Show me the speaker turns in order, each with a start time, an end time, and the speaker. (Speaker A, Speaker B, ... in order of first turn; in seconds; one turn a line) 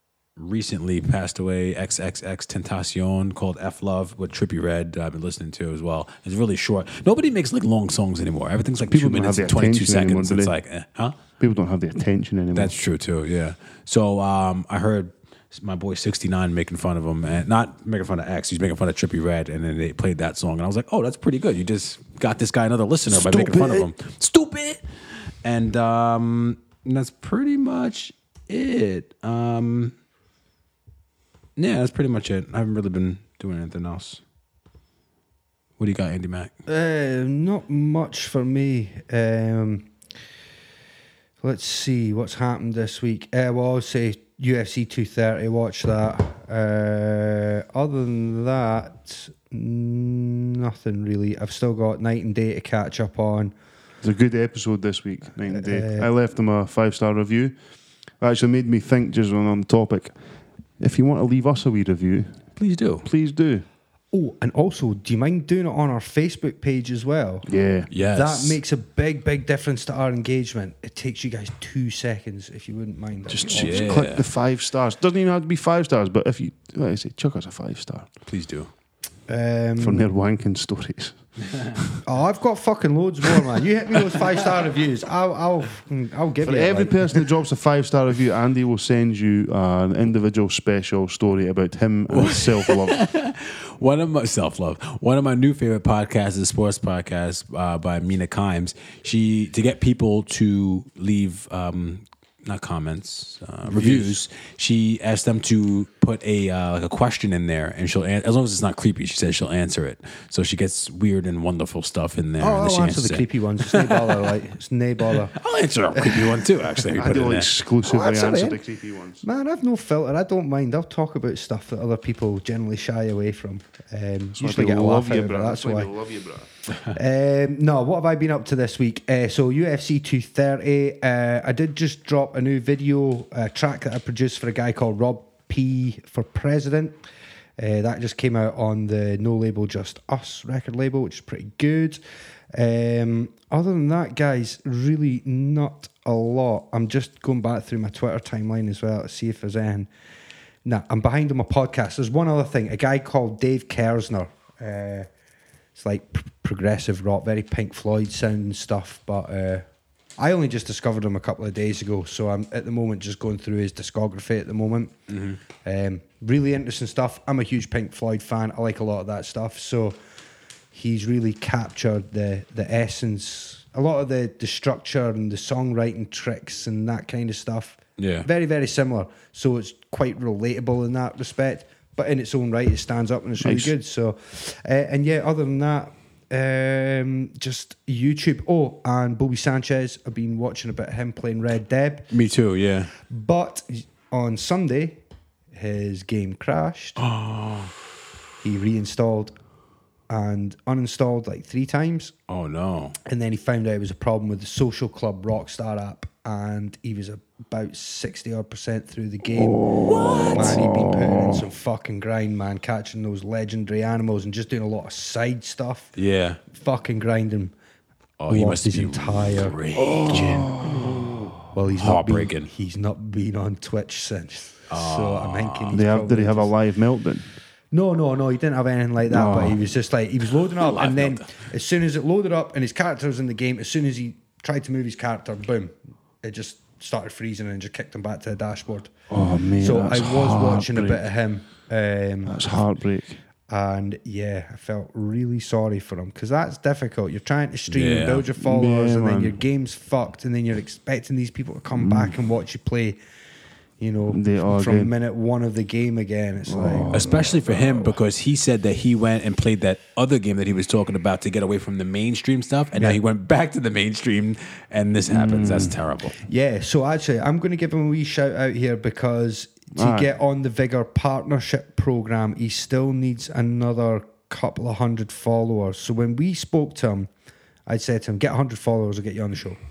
Speaker A: 0.4-11.2
Speaker B: 8.8-10.5
Speaker B: 11.4-12.7
Speaker A: 12.5-24.8
Speaker B: 23.1-23.9
Speaker A: 25.4-29.9
Speaker A: 31.6-34.2
Speaker A: 35.8-36.5
Speaker C: 36.7-39.9
Speaker C: 41.4-53.5
Speaker B: 54.0-57.5
Speaker C: 55.5-56.1
Speaker B: 58.2-60.1
Speaker B: 60.8-62.4
Speaker A: 62.6-63.1
Speaker B: 63.0-63.6
Speaker C: 64.1-67.5
Speaker B: 67.5-67.9
Speaker A: 67.9-68.6
Speaker C: 68.1-73.9
Speaker B: 73.3-78.1
Speaker A: 73.5-74.2
Speaker A: 78.3-78.7
Speaker C: 79.3-80.1
Speaker B: 79.8-82.0
Speaker C: 82.0-87.2
Speaker B: 86.4-93.0
Speaker A: 92.1-114.3
Speaker C: 103.7-104.1
Speaker C: 112.4-115.4
Speaker A: 115.1-117.5
Speaker C: 115.9-118.6
Speaker B: 117.0-119.2
Speaker C: 119.2-125.9
Speaker B: 124.3-126.5
Speaker C: 126.9-137.0
Speaker C: 137.6-142.0
Speaker C: 142.5-149.9
Speaker C: 150.6-155.1
Speaker C: 155.7-159.6
Speaker C: 160.2-164.9
Speaker A: 165.1-165.4
Speaker C: 165.6-170.0
Speaker C: 170.7-192.1
Speaker A: 178.0-178.3
Speaker B: 183.4-183.7
Speaker A: 192.1-192.9
Speaker C: 193.1-195.0
Speaker C: 195.5-197.0
Speaker A: 197.0-197.7
Speaker C: 198.4-199.3
Speaker C: 200.1-202.1
Speaker A: 202.3-202.9
Speaker C: 203.1-215.9
Speaker B: 209.4-211.4
Speaker A: 209.8-210.6
Speaker A: 215.9-216.4
Speaker C: 216.5-217.5
Speaker A: 218.2-220.5
Speaker C: 218.3-220.4
Speaker B: 219.7-221.3
Speaker C: 221.5-226.5
Speaker A: 221.8-222.5
Speaker A: 224.7-225.8
Speaker B: 225.7-227.3
Speaker C: 227.7-238.9
Speaker B: 229.1-229.6
Speaker A: 230.4-231.4
Speaker B: 239.1-241.1
Speaker C: 239.6-242.6
Speaker B: 242.2-243.2
Speaker C: 243.5-253.0
Speaker A: 247.7-248.3
Speaker B: 248.3-249.4
Speaker B: 251.7-252.1
Speaker C: 253.8-256.9
Speaker B: 254.1-254.9
Speaker B: 256.5-258.0
Speaker A: 256.9-266.1
Speaker B: 265.1-265.8
Speaker C: 266.2-277.1
Speaker B: 269.7-270.1
Speaker C: 277.7-279.6